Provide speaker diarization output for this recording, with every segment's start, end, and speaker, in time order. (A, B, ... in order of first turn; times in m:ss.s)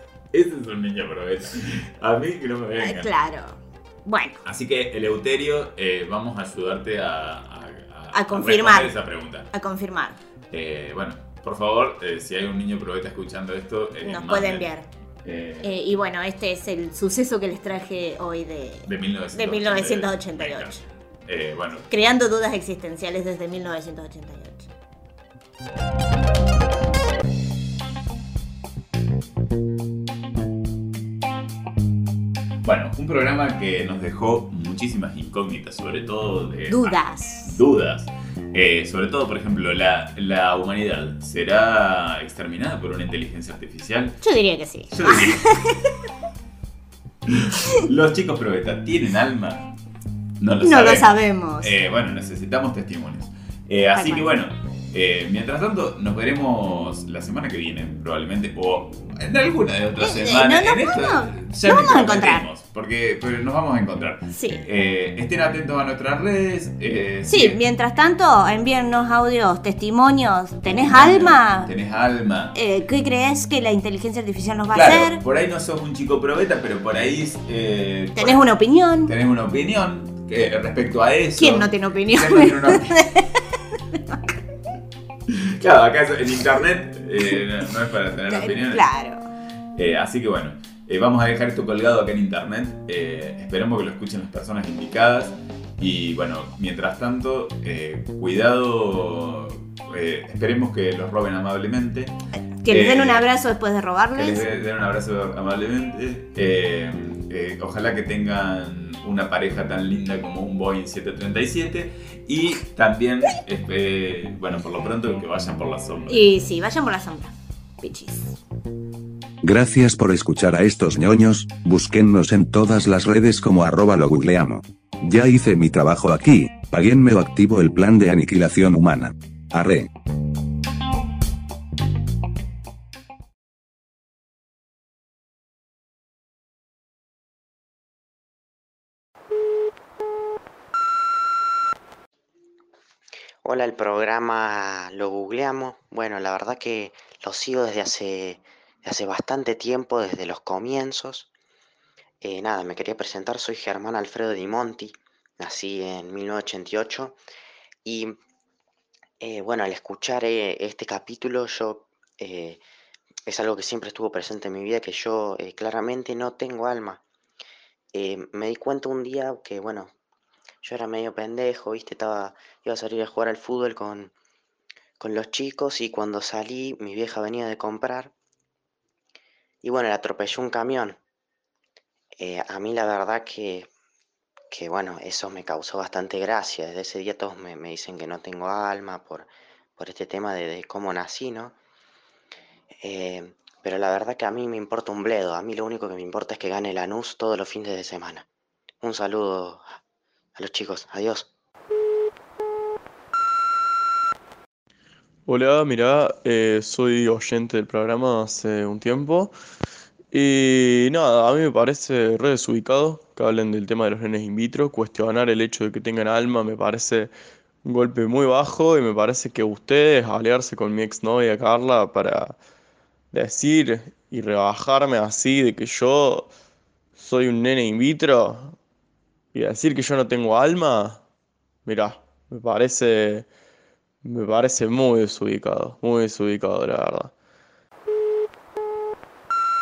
0:00.3-0:03.1 A
0:02.8-0:04.4 B
0:04.4-0:09.5 A
0:08.1-0:08.9 B
0:09.5-0:10.2 B
0:10.5-0:14.7 A
0:14.0-0:14.9 B
0:15.2-0:15.7 A
0:15.6-0:20.8 B
0:18.8-0:21.9 A
0:21.9-0:24.7 B
0:32.6-0:44.2 A
0:36.7-0:37.6 B
0:44.2-0:46.0 B
0:44.9-0:45.4 A
0:47.3-0:49.7 A
0:50.4-1:07.6 A
0:50.6-0:51.7 B
0:53.9-0:54.3 B
1:00.0-1:02.4 B
1:04.3-1:04.6 B
1:07.3-1:11.7 B
1:10.7-1:12.5 A
1:12.5-1:15.2 B
1:14.7-1:18.4 A
1:18.2-1:19.1 B
1:19.0-1:23.0 A
1:21.4-1:24.2 B
1:25.3-1:28.8 A
1:28.3-1:29.3 B
1:29.8-1:42.2 A
1:42.6-1:44.4 B
1:42.7-1:43.2 A
1:44.1-1:56.2 A
1:56.1-1:58.4 B
1:59.4-2:09.9 C
2:23.4-2:31.3 D
2:32.2-2:37.2 D
2:37.8-2:38.2 D
2:39.2-2:42.6 D
2:43.2-2:47.0 D
2:47.9-2:49.9 D
2:50.6-2:54.1 D
2:55.0-2:58.1 D
2:59.6-3:01.0 D
3:02.2-3:03.7 D
3:04.5-3:11.5 D
3:12.8-3:18.2 D
3:18.8-3:19.7 D
3:20.4-3:21.3 D
3:25.2-3:29.3 E
3:30.1-3:37.1 E
3:37.6-3:42.4 E
3:43.1-3:46.3 E
3:47.0-3:48.5 E
3:49.3-3:51.0 E
3:51.6-3:53.3 E
3:54.0-3:57.1 E